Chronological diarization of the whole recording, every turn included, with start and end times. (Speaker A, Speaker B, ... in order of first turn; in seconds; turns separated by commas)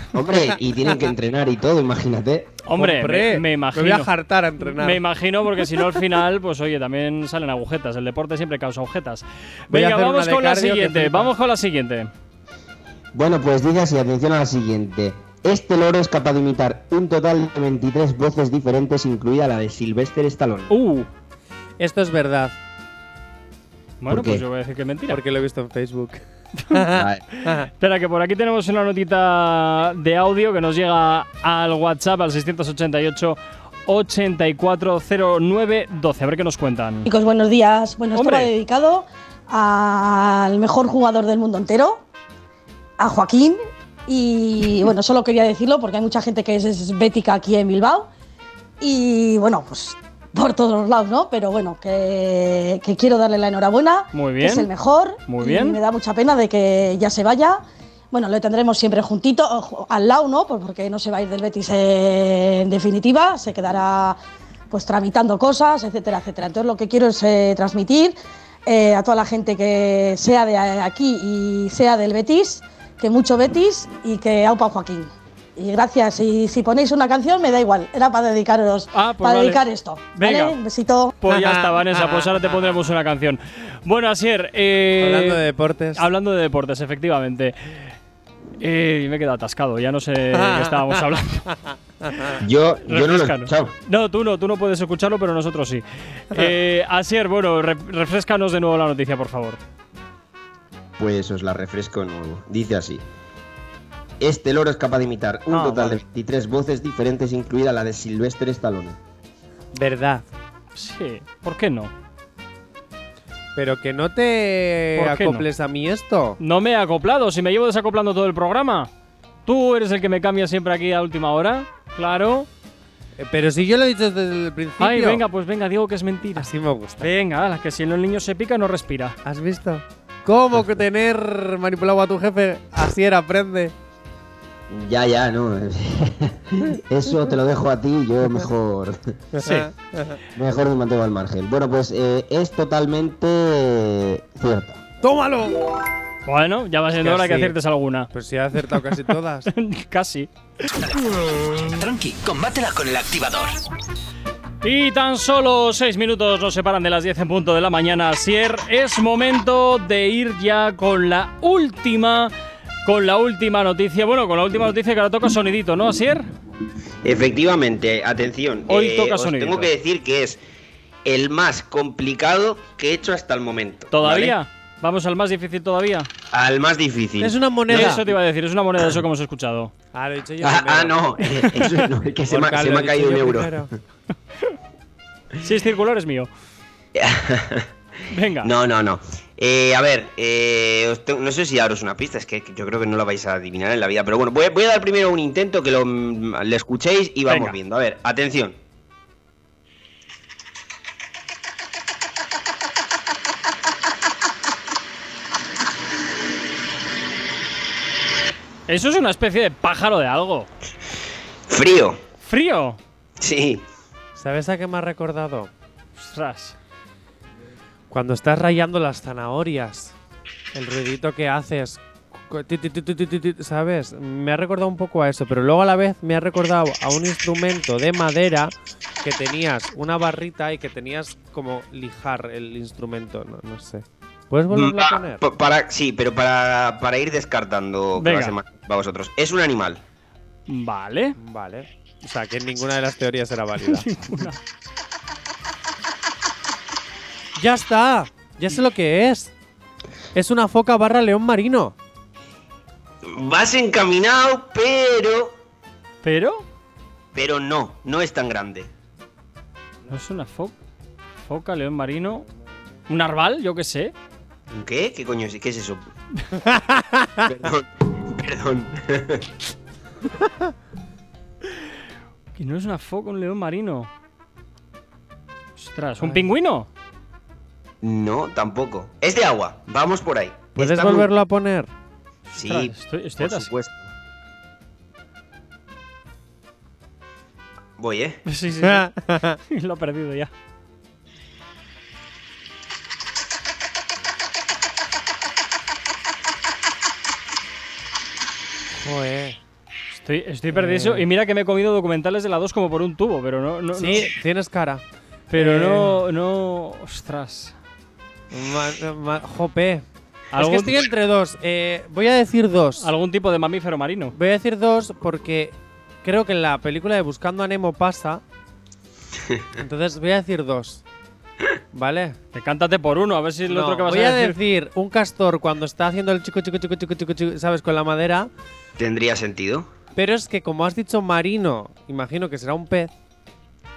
Speaker A: 0.1-2.6, Speaker B: 0.3-0.6, Speaker C: 2.6-4.1, Speaker B: 2.7-5.0, Speaker C: 4.7-12.1, Speaker B: 9.7-11.3, Speaker A: 13.1-20.7, Speaker C: 20.7-21.1, Speaker B: 21.8-22.6, Speaker C: 24.0-25.2, Speaker A: 24.1-24.4, Speaker B: 25.1-27.7, Speaker A: 26.9-27.2, Speaker C: 27.4-37.0, Speaker D: 37.0-42.0, Speaker C: 38.1-38.5, Speaker D: 43.0-48.1, Speaker D: 48.8-64.2, Speaker C: 54.1-54.7, Speaker C: 55.2-55.8, Speaker D: 64.7-81.1, Speaker C: 78.9-79.6, Speaker C: 80.1-80.6, Speaker C: 81.2-85.4, Speaker B: 81.3-82.4, Speaker B: 85.0-86.0, Speaker C: 86.0-87.9, Speaker C: 88.6-91.5, Speaker B: 90.3-92.4, Speaker A: 92.4-93.7, Speaker C: 92.9-99.6, Speaker A: 101.0-103.0, Speaker A: 104.2-109.0, Speaker C: 105.5-106.0, Speaker B: 109.7-110.3, Speaker C: 110.7-111.9, Speaker B: 113.5-116.4, Speaker C: 115.0-115.5, Speaker C: 116.4-118.9, Speaker C: 119.5-122.5, Speaker B: 123.2-125.2, Speaker C: 124.8-129.2, Speaker B: 126.3-127.1, Speaker B: 129.2-133.7, Speaker A: 134.7-139.2, Speaker B: 139.3-140.2, Speaker C: 139.4-139.7, Speaker A: 140.3-144.8, Speaker B: 145.0-145.7, Speaker C: 146.2-148.1, Speaker B: 147.0-147.6, Speaker B: 148.1-149.5, Speaker C: 149.5-150.3, Speaker E: 150.8-153.6, Speaker C: 154.6-162.3, Speaker C: 162.8-166.3, Speaker A: 167.0-170.4, Speaker C: 168.7-169.7, Speaker A: 171.0-174.3, Speaker C: 173.9-176.1, Speaker A: 176.3-178.0, Speaker B: 177.2-178.1, Speaker C: 177.7-179.7, Speaker B: 179.9-181.1, Speaker A: 180.4-183.6, Speaker C: 181.4-181.7, Speaker B: 182.2-183.7, Speaker C: 185.4-186.3, Speaker A: 186.9-187.7, Speaker C: 188.1-188.5, Speaker A: 188.4-198.6, Speaker C: 197.3-197.5, Speaker C: 208.7-210.5, Speaker A: 211.5-212.0, Speaker C: 212.2-212.8, Speaker A: 213.2-213.6, Speaker B: 214.1-215.5, Speaker C: 216.0-216.6, Speaker B: 217.9-219.9, Speaker B: 220.5-235.2, Speaker A: 234.5-239.8, Speaker C: 238.0-238.3, Speaker C: 240.5-241.2, Speaker B: 241.2-244.2, Speaker C: 243.7-244.4, Speaker B: 247.3-249.3, Speaker B: 250.1-251.8, Speaker A: 253.0-255.3, Speaker C: 256.0-256.4, Speaker A: 257.1-258.7, Speaker C: 259.9-260.6, Speaker C: 261.2-262.2, Speaker C: 262.9-263.9, Speaker A: 264.5-265.8, Speaker B: 266.4-267.2, Speaker A: 267.2-269.3, Speaker C: 272.3-273.9, Speaker C: 275.6-276.7, Speaker B: 276.0-276.2, Speaker A: 277.8-281.1, Speaker B: 280.6-281.7, Speaker C: 282.3-283.5, Speaker A: 282.4-283.9, Speaker A: 287.8-288.2, Speaker C: 288.2-288.9, Speaker B: 288.6-289.4, Speaker C: 289.5-290.3, Speaker B: 298.7-299.4, Speaker C: 299.9-304.1, Speaker B: 300.5-301.1, Speaker B: 303.7-306.0, Speaker C: 305.3-307.5, Speaker B: 308.3-312.9, Speaker C: 310.3-310.8, Speaker C: 312.8-314.1, Speaker B: 314.1-318.2, Speaker B: 319.6-320.8, Speaker B: 321.7-322.2, Speaker C: 322.3-324.4, Speaker B: 323.5-328.3, Speaker A: 328.8-329.7, Speaker B: 329.9-332.9